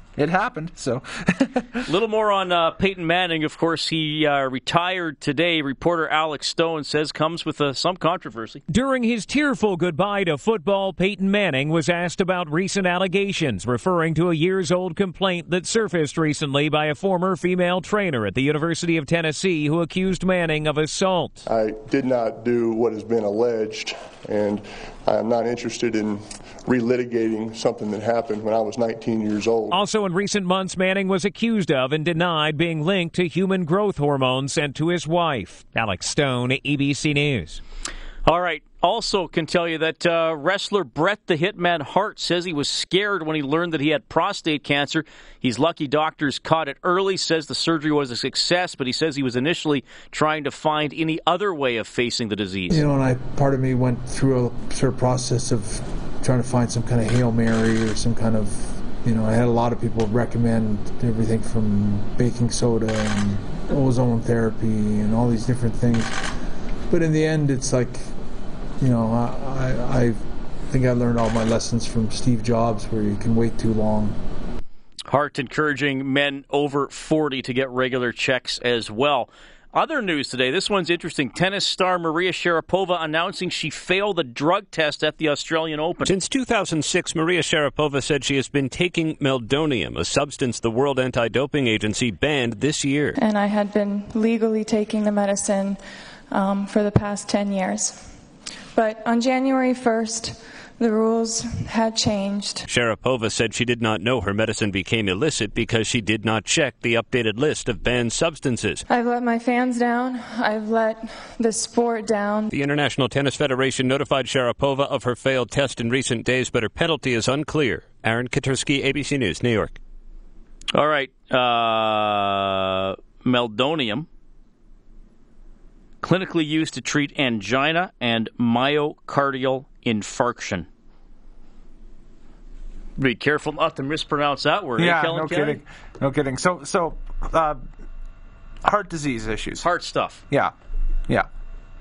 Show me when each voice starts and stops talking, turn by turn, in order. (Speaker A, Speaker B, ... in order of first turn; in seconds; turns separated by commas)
Speaker A: 0.2-1.8, Speaker B: 1.9-8.6, Speaker C: 8.7-21.4, Speaker D: 21.4-29.8, Speaker C: 29.7-37.6, Speaker B: 38.2-52.9, Speaker E: 52.7-66.2, Speaker E: 66.9-68.1, Speaker E: 68.8-74.2, Speaker B: 75.1-86.1, Speaker F: 86.0-93.2, Speaker G: 93.2-98.1, Speaker G: 98.7-102.7, Speaker F: 102.7-108.8, Speaker G: 108.9-112.5, Speaker F: 112.5-119.8, Speaker B: 120.7-124.1, Speaker B: 126.0-130.7, Speaker B: 133.0-135.6, Speaker A: 134.8-137.6, Speaker A: 138.6-139.6, Speaker B: 139.6-140.2